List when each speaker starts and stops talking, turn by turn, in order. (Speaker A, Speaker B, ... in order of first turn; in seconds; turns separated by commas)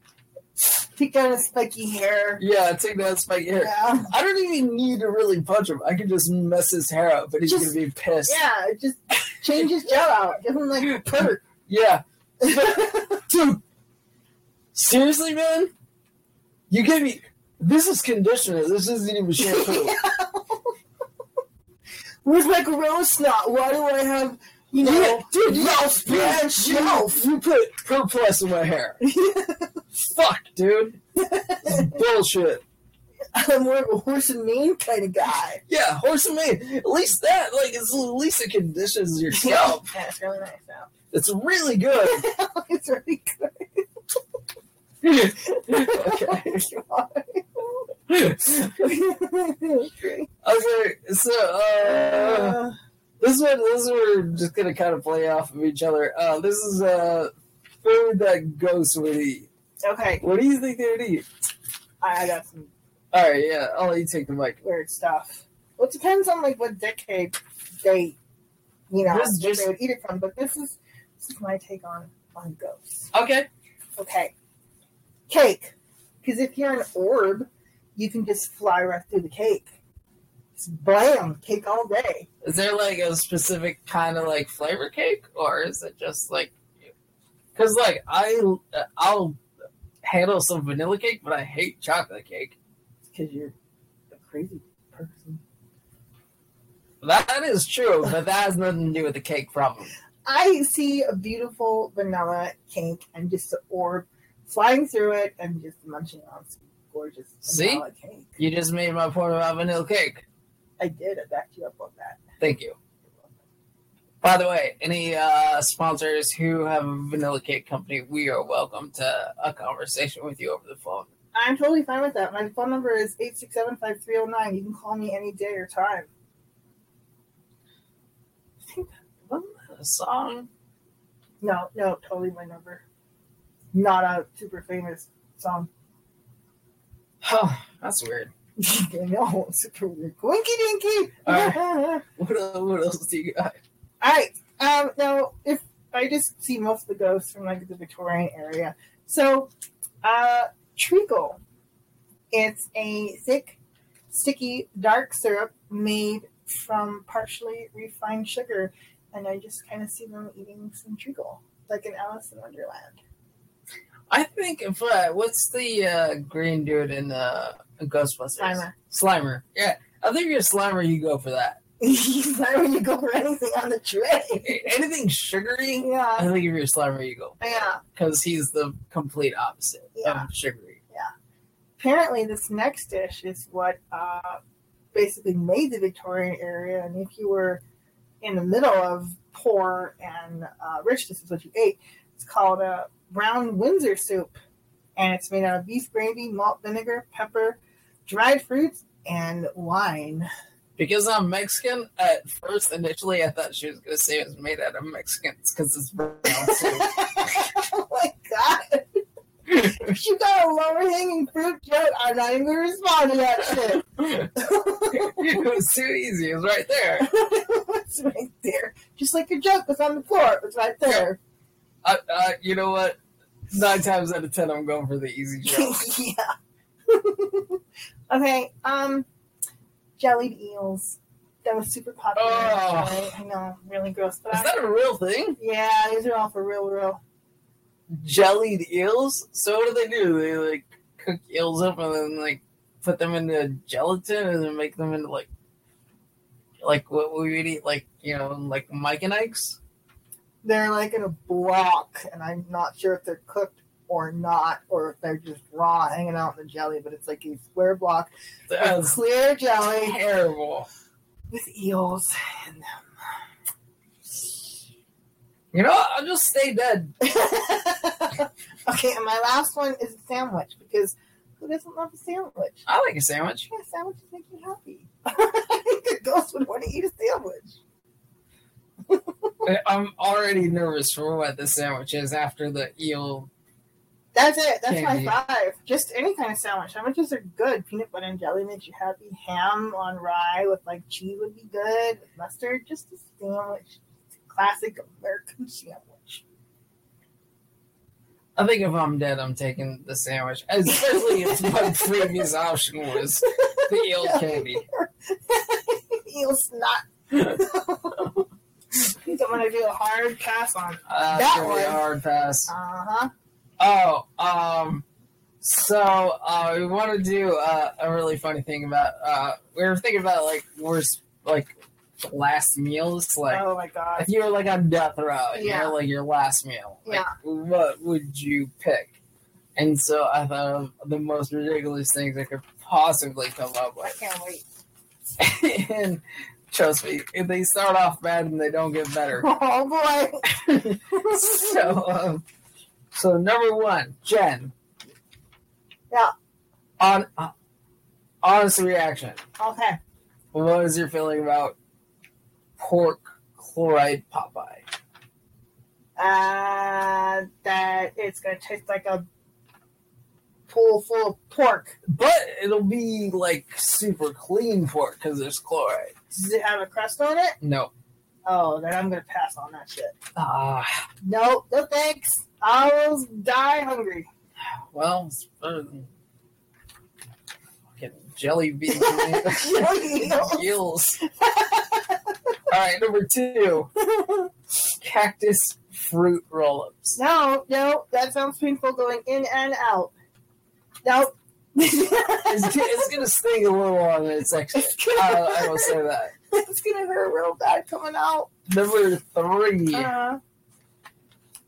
Speaker A: 0.9-2.4, Speaker B: 2.4-8.4, Speaker A: 3.6-4.1, Speaker A: 7.4-11.4, Speaker B: 11.7-13.6, Speaker A: 12.4-13.3, Speaker B: 14.7-15.7, Speaker B: 16.7-19.9, Speaker A: 19.4-20.7, Speaker A: 22.2-27.2, Speaker B: 24.8-29.0, Speaker A: 29.0-29.7, Speaker B: 30.0-31.0, Speaker A: 31.1-32.0, Speaker B: 31.6-32.6, Speaker A: 33.3-35.6, Speaker B: 35.7-39.9, Speaker A: 39.3-40.9, Speaker B: 41.1-42.2, Speaker A: 42.0-43.9, Speaker B: 45.0-46.5, Speaker A: 45.1-47.9, Speaker B: 48.1-48.8, Speaker A: 48.6-50.3, Speaker B: 50.4-52.6, Speaker A: 51.8-52.8, Speaker B: 53.2-57.3, Speaker B: 57.8-59.5, Speaker A: 59.8-60.2, Speaker B: 60.2-61.3, Speaker A: 62.0-62.7, Speaker B: 63.1-64.6, Speaker A: 64.6-68.2, Speaker A: 68.9-73.1, Speaker B: 69.1-69.7, Speaker B: 73.1-73.5, Speaker A: 74.0-74.3, Speaker A: 75.3-79.7, Speaker A: 80.6-82.3, Speaker B: 82.4-86.9, Speaker B: 87.5-89.4, Speaker B: 90.0-92.5, Speaker A: 93.1-93.5, Speaker A: 94.1-95.4, Speaker B: 97.0-99.9, Speaker A: 100.2-108.3, Speaker B: 107.4-107.8, Speaker B: 108.4-110.2, Speaker A: 110.8-112.2, Speaker B: 112.4-112.8, Speaker B: 114.2-121.1, Speaker A: 121.3-126.1, Speaker B: 129.3-130.5, Speaker A: 131.4-132.8, Speaker A: 133.7-135.7, Speaker B: 137.2-138.3, Speaker A: 138.6-142.0, Speaker B: 141.2-143.6, Speaker A: 144.0-149.5, Speaker A: 150.0-151.4, Speaker A: 152.3-153.6, Speaker A: 154.1-163.0, Speaker B: 164.1-171.6, Speaker A: 168.4-168.7, Speaker A: 171.8-174.7, Speaker B: 174.4-177.4, Speaker A: 175.8-176.3, Speaker A: 177.4-177.8, Speaker B: 177.9-180.8, Speaker A: 179.9-180.3, Speaker A: 181.8-184.4, Speaker A: 184.9-187.6, Speaker A: 188.2-194.4, Speaker A: 194.9-200.3, Speaker B: 200.8-207.0, Speaker A: 206.4-215.3, Speaker B: 214.0-214.3, Speaker B: 214.9-217.1, Speaker A: 217.0-221.2, Speaker B: 221.8-223.0, Speaker B: 223.5-225.8, Speaker A: 225.4-226.3, Speaker A: 226.9-229.1, Speaker A: 230.0-234.5, Speaker B: 232.2-233.1, Speaker B: 234.3-235.4, Speaker A: 235.4-237.0, Speaker B: 237.9-245.3, Speaker B: 246.6-249.6, Speaker A: 250.4-260.0, Speaker B: 258.5-259.0, Speaker B: 259.8-260.7, Speaker A: 261.3-262.8, Speaker B: 265.5-266.9, Speaker A: 267.0-272.6, Speaker B: 272.6-273.5, Speaker A: 273.5-277.6, Speaker A: 278.9-279.3, Speaker B: 279.4-283.3, Speaker A: 284.1-296.2, Speaker B: 284.7-285.2, Speaker B: 298.4-304.6, Speaker A: 300.8-302.1, Speaker A: 303.3-308.2, Speaker A: 308.8-311.8, Speaker B: 310.9-312.5, Speaker A: 312.5-313.1, Speaker B: 313.6-314.8, Speaker B: 315.4-323.4, Speaker A: 323.3-324.1, Speaker B: 324.0-328.9, Speaker A: 325.3-325.7, Speaker A: 326.9-327.1, Speaker B: 329.6-333.9, Speaker A: 333.8-334.4, Speaker B: 335.2-339.3, Speaker A: 339.1-341.7, Speaker B: 340.3-342.2, Speaker B: 342.9-344.5, Speaker B: 346.8-347.3, Speaker B: 348.2-349.2, Speaker A: 349.4-349.8, Speaker B: 350.3-351.5, Speaker B: 352.6-354.6, Speaker A: 356.0-359.0, Speaker A: 360.5-361.8, Speaker B: 361.9-365.9, Speaker A: 366.1-367.4, Speaker B: 367.4-367.7, Speaker A: 368.2-369.9, Speaker B: 370.1-370.8, Speaker A: 371.0-374.1, Speaker B: 374.7-375.9, Speaker B: 377.7-381.0, Speaker A: 378.7-380.4, Speaker A: 381.0-382.0, Speaker B: 382.5-383.7, Speaker A: 383.8-384.3, Speaker B: 384.8-387.0, Speaker A: 387.0-389.9, Speaker A: 390.8-392.8, Speaker B: 392.2-396.1, Speaker A: 394.5-395.7, Speaker A: 396.3-398.3, Speaker B: 398.5-399.9, Speaker A: 399.7-400.2